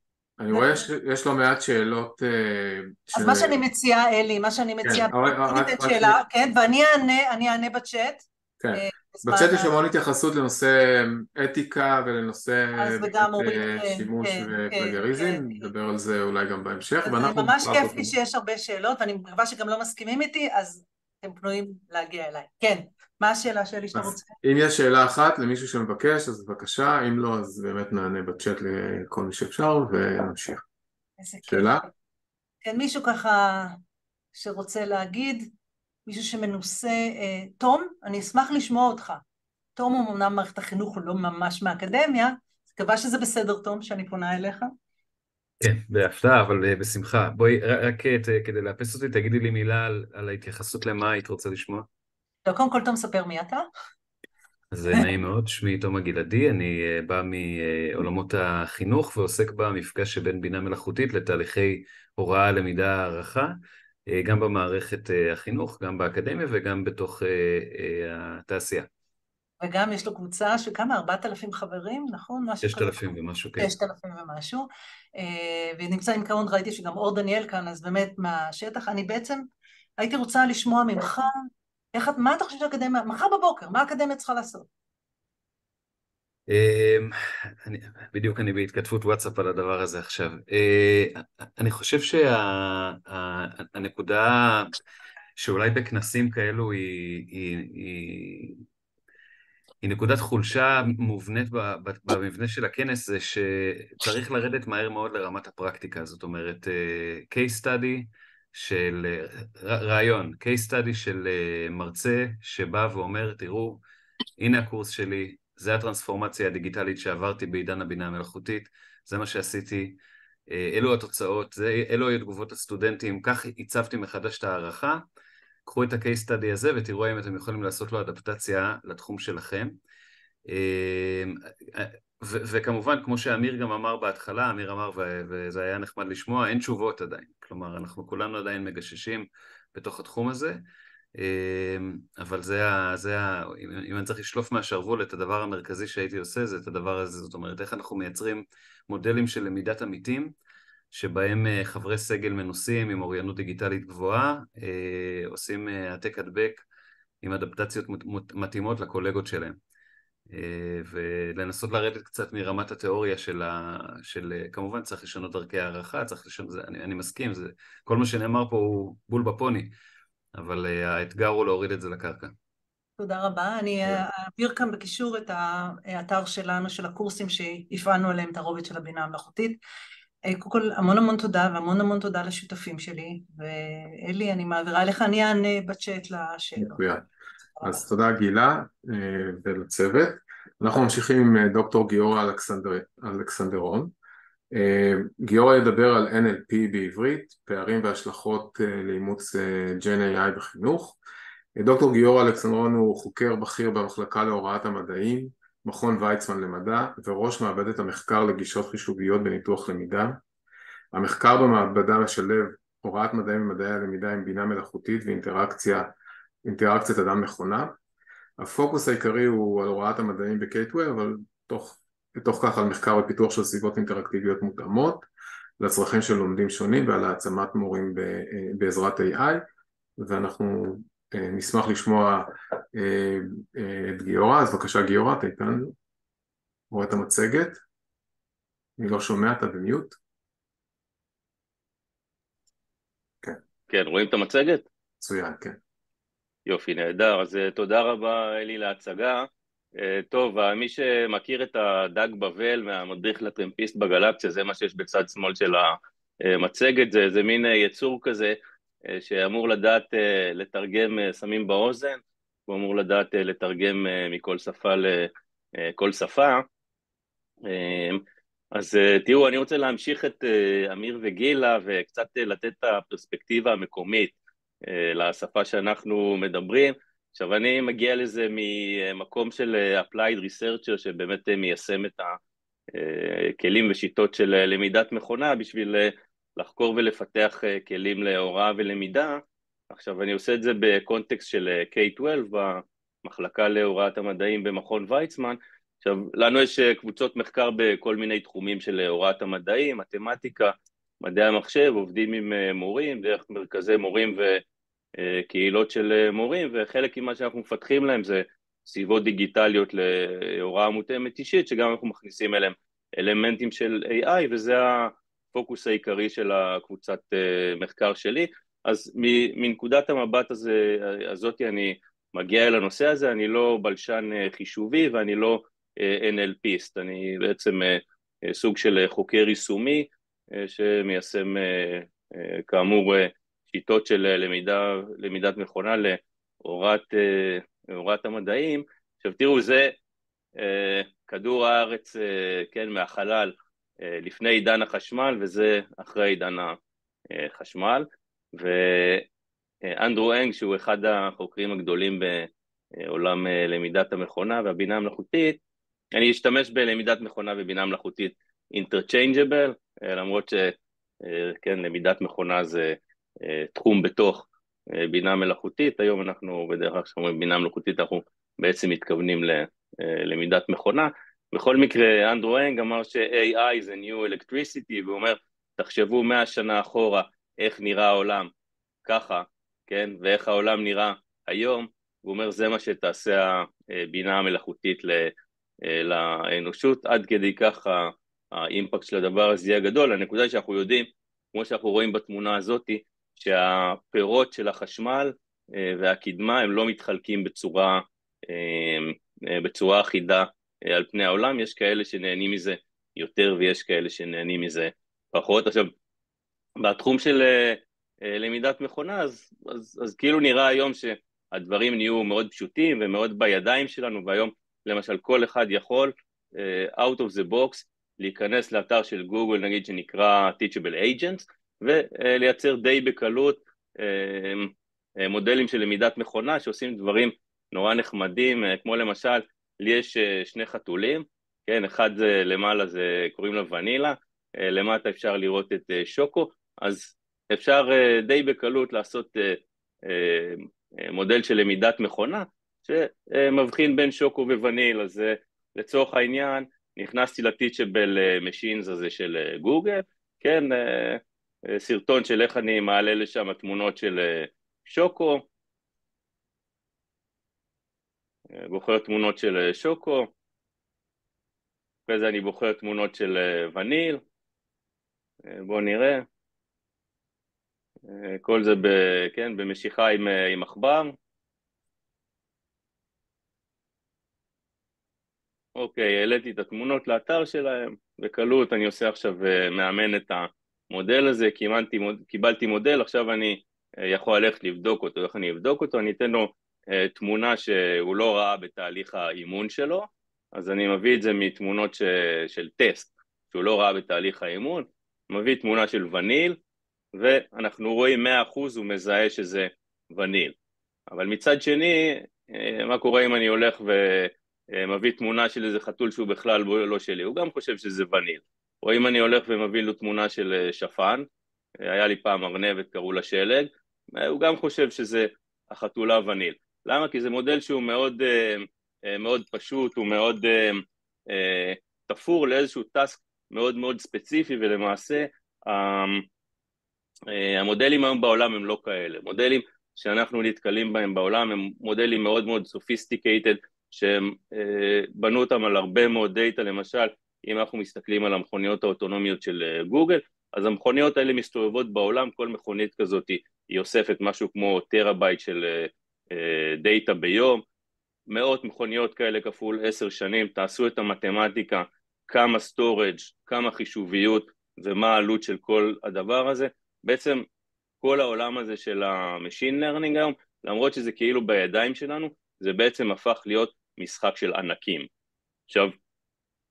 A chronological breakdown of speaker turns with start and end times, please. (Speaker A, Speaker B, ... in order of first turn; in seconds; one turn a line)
Speaker A: 0.4-3.6
Speaker B: 0.5-0.9
Speaker B: 3.1-9.7
Speaker A: 4.8-6.2
Speaker A: 8.6-18.1
Speaker B: 12.8-15.6
Speaker B: 17.0-24.3
Speaker A: 23.9-30.6
Speaker B: 31.2-31.9
Speaker A: 31.5-31.8
Speaker B: 32.6-33.8
Speaker B: 34.3-35.5
Speaker B: 36.0-39.2
Speaker B: 39.8-44.7
Speaker C: 45.6-51.9
Speaker B: 52.4-53.7
Speaker C: 54.7-68.9
Speaker B: 69.6-73.0
Speaker C: 72.6-73.7
Speaker B: 73.6-79.4
Speaker B: 80.0-81.3
Speaker B: 81.9-84.7
Speaker C: 86.5-94.8
Speaker C: 95.4-98.6
Speaker C: 99.8-113.8
Speaker C: 114.4-125.0
Speaker C: 125.7-129.8
Speaker C: 130.4-140.6
Speaker C: 141.1-150.3
Speaker C: 150.9-156.6
Speaker C: 157.2-159.6
Speaker C: 160.3-169.7
Speaker C: 170.3-172.3
Speaker B: 173.0-179.6
Speaker B: 180.3-186.8
Speaker A: 186.6-187.0
Speaker A: 187.6-193.9
Speaker A: 194.5-201.0
Speaker A: 201.6-210.2
Speaker A: 210.9-215.9
Speaker A: 216.4-217.7
Speaker A: 218.4-225.1
Speaker A: 225.6-229.4
Speaker A: 230.0-235.7
Speaker A: 236.7-237.6
Speaker A: 238.8-239.9
Speaker D: 243.7-244.7
Speaker A: 245.0-245.6
Speaker D: 246.4-266.4
Speaker D: 267.4-268.0
Speaker D: 268.5-274.1
Speaker D: 274.6-282.2
Speaker D: 282.7-304.4
Speaker D: 305.0-339.7
Speaker D: 340.4-343.3
Speaker D: 343.8-346.6
Speaker D: 347.1-349.0
Speaker D: 349.7-352.3
Speaker D: 352.8-355.4
Speaker D: 355.9-378.3
Speaker D: 378.8-385.1
Speaker D: 385.6-405.7
Speaker D: 406.6-455.2
Speaker D: 458.4-460.1
Speaker D: 461.9-464.0
Speaker D: 465.3-466.0
Speaker D: 467.9-470.9
Speaker D: 475.6-496.4
Speaker D: 496.9-500.3
Speaker D: 500.9-511.0
Speaker D: 511.6-526.0
Speaker D: 527.1-547.4
Speaker D: 548.1-557.2
Speaker D: 557.8-564.9
Speaker D: 565.5-565.7